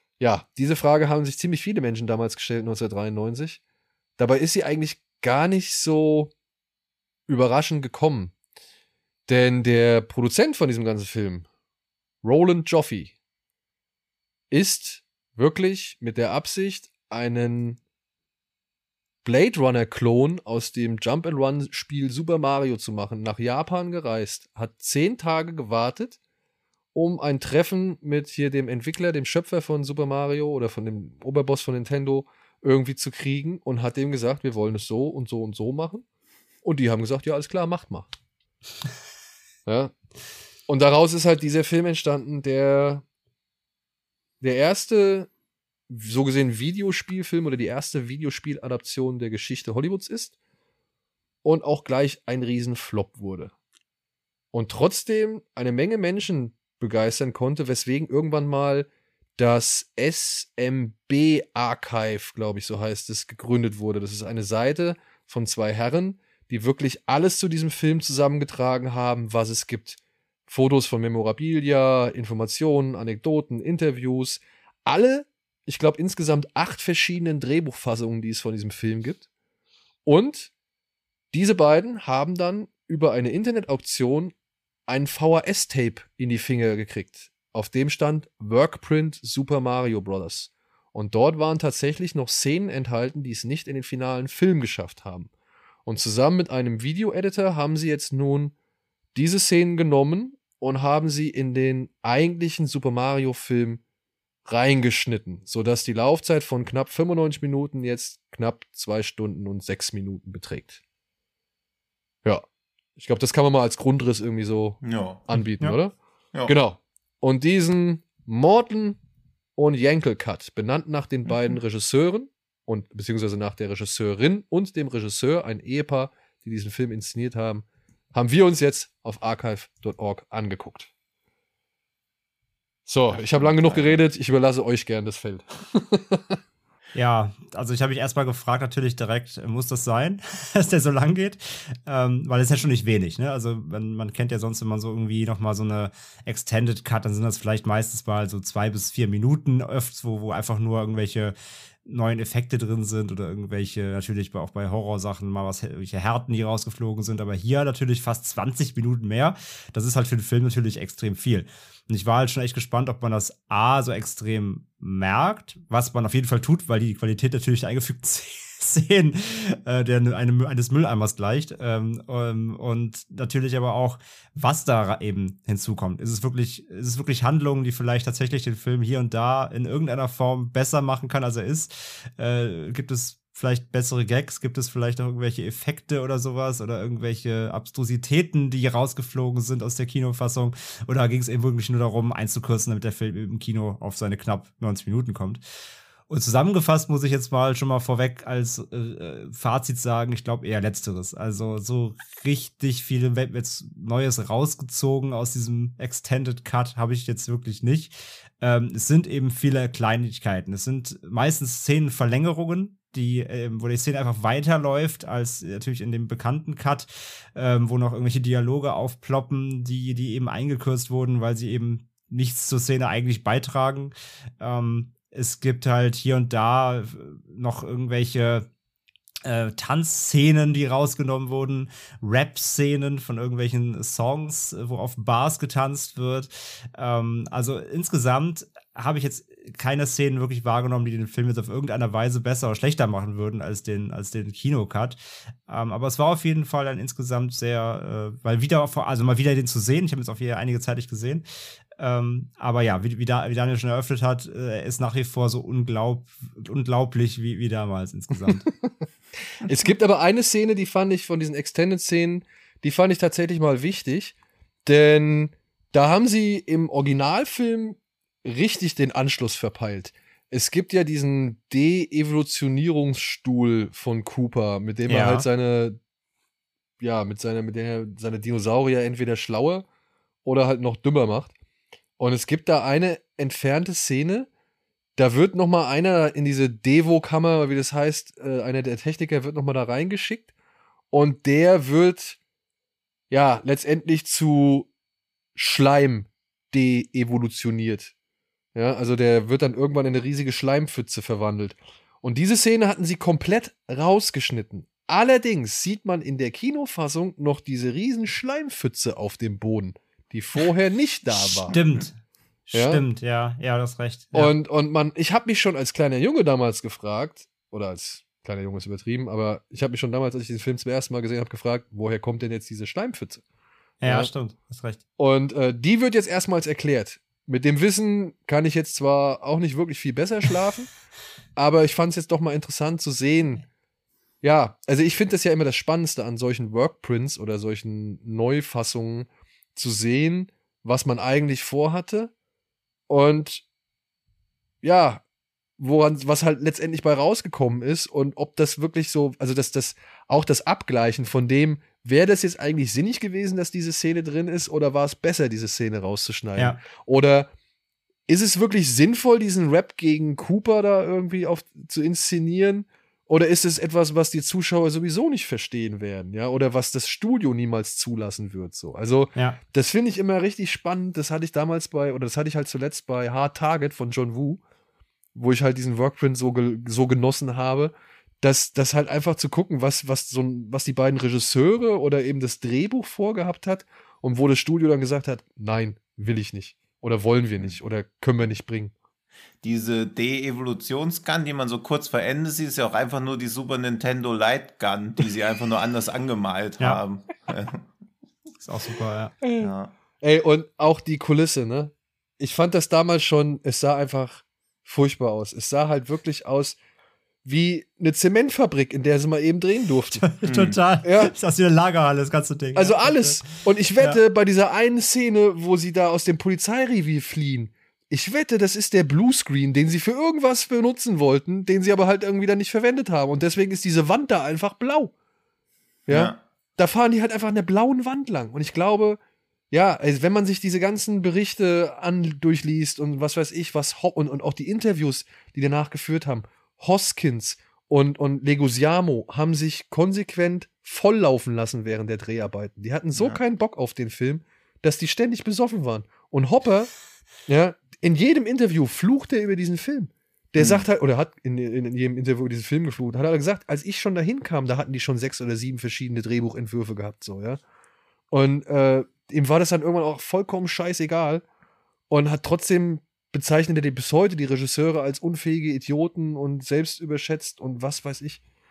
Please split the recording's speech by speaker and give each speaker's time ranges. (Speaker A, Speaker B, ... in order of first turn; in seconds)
Speaker A: 0.2-3.6, 4.2-6.3, 7.3-8.3, 9.3-11.4, 12.2-13.1, 14.5-17.8, 19.2-26.2, 26.9-36.0, 36.6-38.1, 39.6-39.9, 40.7-43.0, 44.4-45.3, 45.9-50.3, 51.4-53.5, 54.5-79.2, 80.0-80.5, 81.3-84.3, 84.9-95.3, 95.8-98.5, 99.1-103.8, 104.5-110.8, 113.0-115.9, 116.5-119.0, 119.5-130.9, 132.8-136.4, 259.4-264.1, 264.6-275.8, 276.8-279.6, 280.2-281.3, 282.0-284.3, 285.0-290.3, 290.9-292.2, 293.1-294.7, 295.4-297.9, 298.5-311.5, 312.5-312.8, 314.1-323.2, 323.8-324.1, 325.0-330.7, 331.4-333.4, 334.2-342.1, 342.9-343.4, 344.6-345.0, 345.6-357.3, 358.1-374.4, 375.1-388.7, 399.2-406.6, 407.2-410.0, 410.8-411.1, 412.5-424.9, 425.9-429.0, 429.5-446.7, 447.3-457.4, 458.1-461.2, 461.9-468.2
Speaker B: 114.8-115.2, 133.1-134.0, 389.4-397.6, 399.4-399.7, 410.2-410.6, 425.9-426.2, 450.4-450.6
Speaker C: 136.9-195.4, 196.1-228.4, 229.2-251.2, 251.8-258.5, 274.9-275.3, 311.5-311.9, 312.5-314.3, 323.8-324.8, 398.4-399.1, 409.9-414.0